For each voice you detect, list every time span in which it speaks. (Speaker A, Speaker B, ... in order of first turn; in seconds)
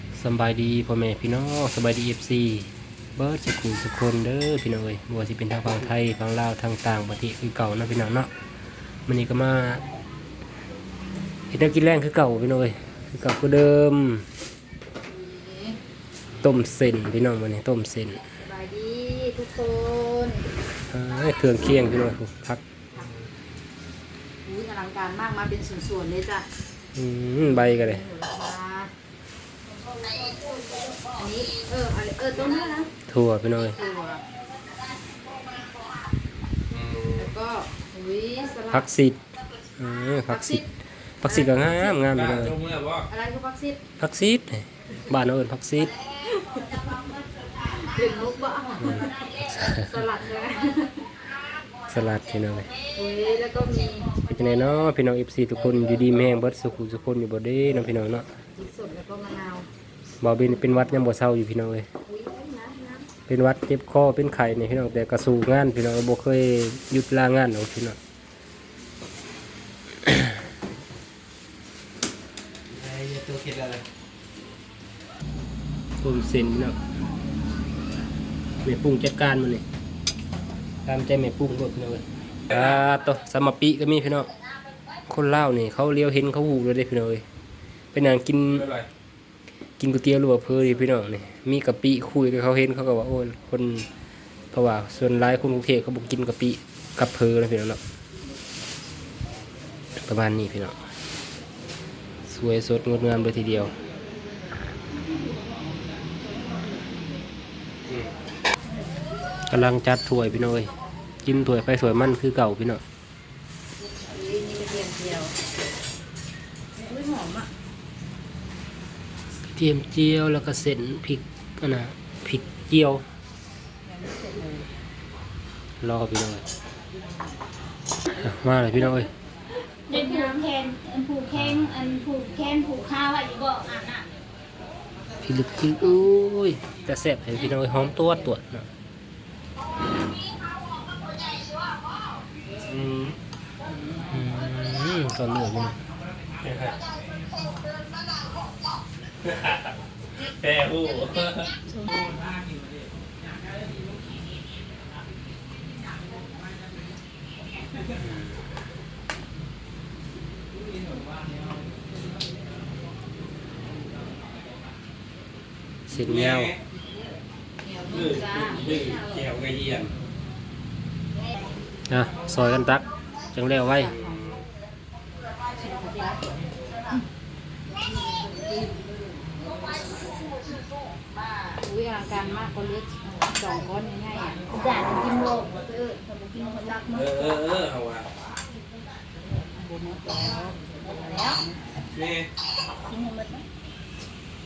Speaker A: 0.1-8.3, 9.1-9.8, 11.5-14.3, 16.4-18.2, 20.9-22.6, 26.9-28.1, 33.1-33.8, 38.7-39.2, 39.8-42.6, 44.0-45.9, 51.9-52.7, 54.2-58.3, 60.2-61.9, 63.3-68.0, 76.0-76.8, 78.6-79.6, 80.9-84.3, 85.1-87.2, 87.9-88.7, 89.8-93.9, 94.5-97.8, 100.0-100.8, 102.2-103.7, 109.5-110.7, 111.2-112.8, 119.5-123.0, 125.8-126.5, 128.1-129.1, 131.3-131.7, 135.2-138.7, 144.1-145.8, 165.9-166.6, 171.9-174.0
Speaker B: 15.1-15.8, 18.4-20.5, 24.4-26.5, 27.4-28.9, 31.1-32.9, 33.7-34.2, 37.2-38.9, 40.3-40.6, 41.2-41.7, 43.1-43.8, 46.2-47.0, 47.6-51.1, 52.9-54.2, 58.5-59.7, 62.1-63.0, 114.1-115.4, 116.8-117.5, 123.8-124.7, 129.9-130.5, 133.7-134.0, 151.7-152.2, 167.6-169.2, 173.8-174.2, 175.5-176.3, 181.6-184.9, 186.3-187.2, 189.6-191.4, 192.9-193.4
Speaker C: 36.7-37.3, 41.9-43.1, 72.7-73.8, 88.5-88.9, 142.7-143.2, 146.4-146.8, 149.2-151.6, 165.9-166.6, 167.9-169.9, 173.9-174.4, 186.9-188.1, 191.9-192.3
Speaker D: 129.9-134.0, 184.5-187.4